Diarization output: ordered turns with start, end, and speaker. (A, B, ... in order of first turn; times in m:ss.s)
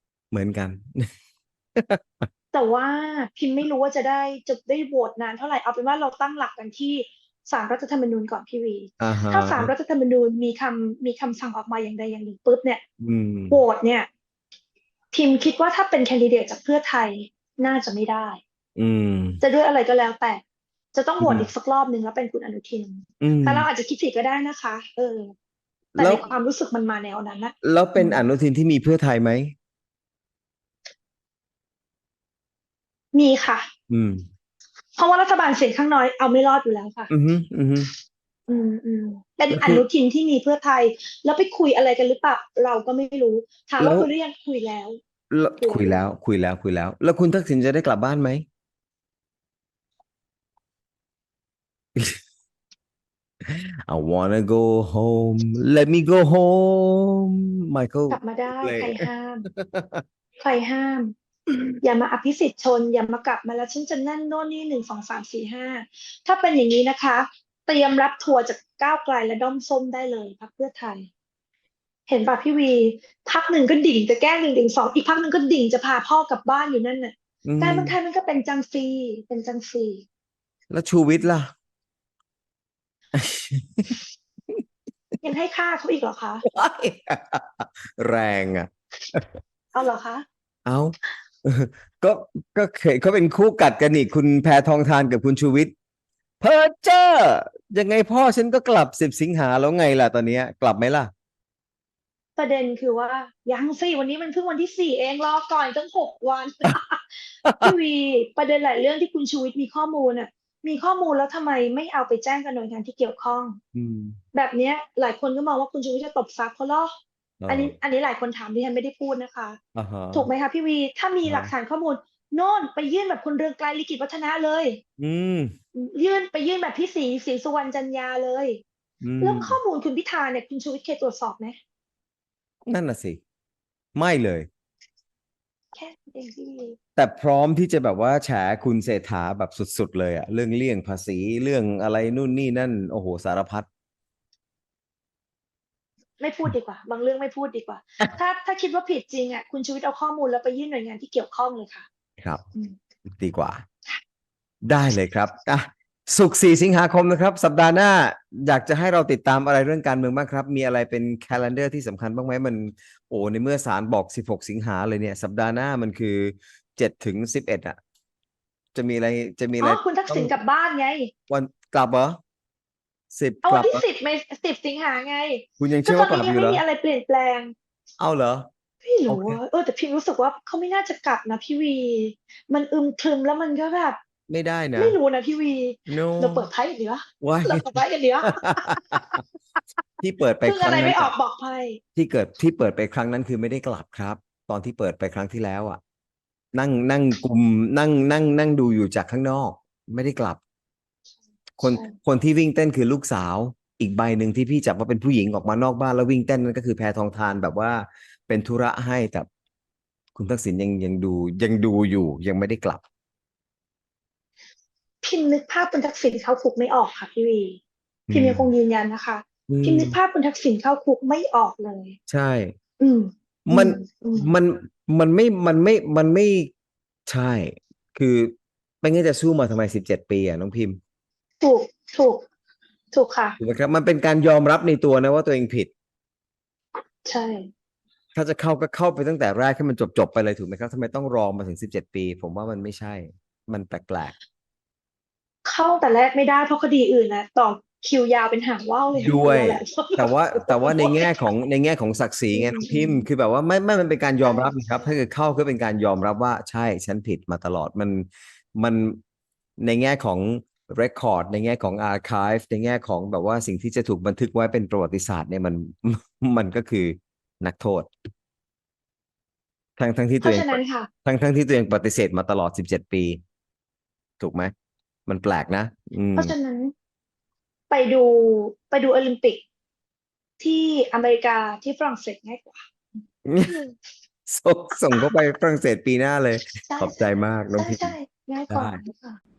0:00.3-0:01.1 A
0:01.8-0:02.2 A
0:02.5-0:12.8 B
0:09.0-0:09.7 A
0:13.0-0:13.6 A
0:13.5-0:14.1 B
0:15.1-0:18.4 B
0:18.8-0:19.4 A
0:19.4-0:20.4 B
0:20.9-0:25.3 B
0:21.2-0:21.5 A
0:23.2-0:23.7 A
0:26.0-0:28.2 B
0:26.0-0:26.3 A
0:27.6-0:29.5 A
0:33.1-0:33.7 B
0:33.9-0:34.3 A
0:35.0-0:37.1 B
0:37.1-0:37.9 A
0:38.5-0:45.0 B
0:39.5-0:39.8 A
0:43.8-0:44.1 A
0:45.3-0:48.4 A
0:45.6-0:46.0 B
0:53.4-1:00.0 A
0:58.1-0:59.4 B
1:00.4-1:11.1 B
1:12.1-1:20.0 B
1:17.4-1:17.9 A
1:20.7-1:21.5 A
1:23.1-1:24.0 A
1:25.2-1:26.4 B
1:26.4-1:29.3 A
1:29.7-1:30.2 B
1:30.6-1:35.7 A
1:36.4-1:41.1 A
1:42.4-1:53.6 B
1:47.4-1:47.7 A
1:53.7-1:54.2 A
1:54.3-1:56.9 B
1:57.4-1:57.7 A
1:57.5-1:59.6 B
1:59.7-2:00.3 A
2:00.1-2:04.8 B
2:01.2-2:01.5 A
2:05.0-2:05.5 A
2:05.7-2:08.6 B
2:09.0-2:09.6 A
2:09.2-2:11.6 B
2:12.6-2:13.2 A
2:13.9-2:14.5 A
2:15.7-2:16.8 B
2:17.0-2:23.7 A
2:26.2-2:31.8 B
2:33.1-2:33.6 A
2:34.6-2:47.8 A
2:48.7-2:50.3 A
2:49.6-2:51.1 B
2:51.3-2:52.2 A
2:53.1-2:53.8 A
2:53.4-2:57.5 B
2:55.6-2:56.6 A
2:58.0-2:58.5 A
2:58.8-3:04.0 B
2:59.1-2:59.4 A
3:04.3-3:05.0 A
3:04.7-3:09.2 B
3:05.9-3:06.5 A
3:07.2-3:09.1 A
3:10.0-3:11.1 A
3:10.4-3:11.8 B
3:12.0-3:15.8 A
3:16.5-3:20.4 A
3:21.6-3:29.3 A
3:21.6-3:22.0 B
3:30.1-3:32.8 A
3:35.0-3:37.6 B
3:38.1-3:38.5 A
3:38.1-3:42.0 B
3:39.5-3:40.0 A
3:42.1-3:42.6 A
3:42.8-3:44.3 B
3:43.5-3:46.5 A
3:47.0-3:50.8 A
3:51.4-3:52.2 B
3:52.9-3:53.4 B
3:53.4-3:55.7 A
3:57.0-3:57.5 B
3:58.1-4:04.1 A
4:05.4-4:11.3 B
4:08.9-4:19.0 A
4:12.3-4:13.0 B
4:14.2-4:14.6 B
4:19.6-4:27.9 A
4:29.8-4:33.2 A
4:30.2-4:30.9 B
4:34.2-4:34.5 A
4:35.1-4:36.3 A
4:36.2-4:36.7 B
4:37.7-4:39.4 B
4:40.4-4:42.6 B
4:43.2-4:43.6 A
4:43.4-4:43.7 B
4:44.3-4:47.9 A
4:46.7-4:47.0 B
4:47.5-4:49.2 B
4:48.5-4:48.8 A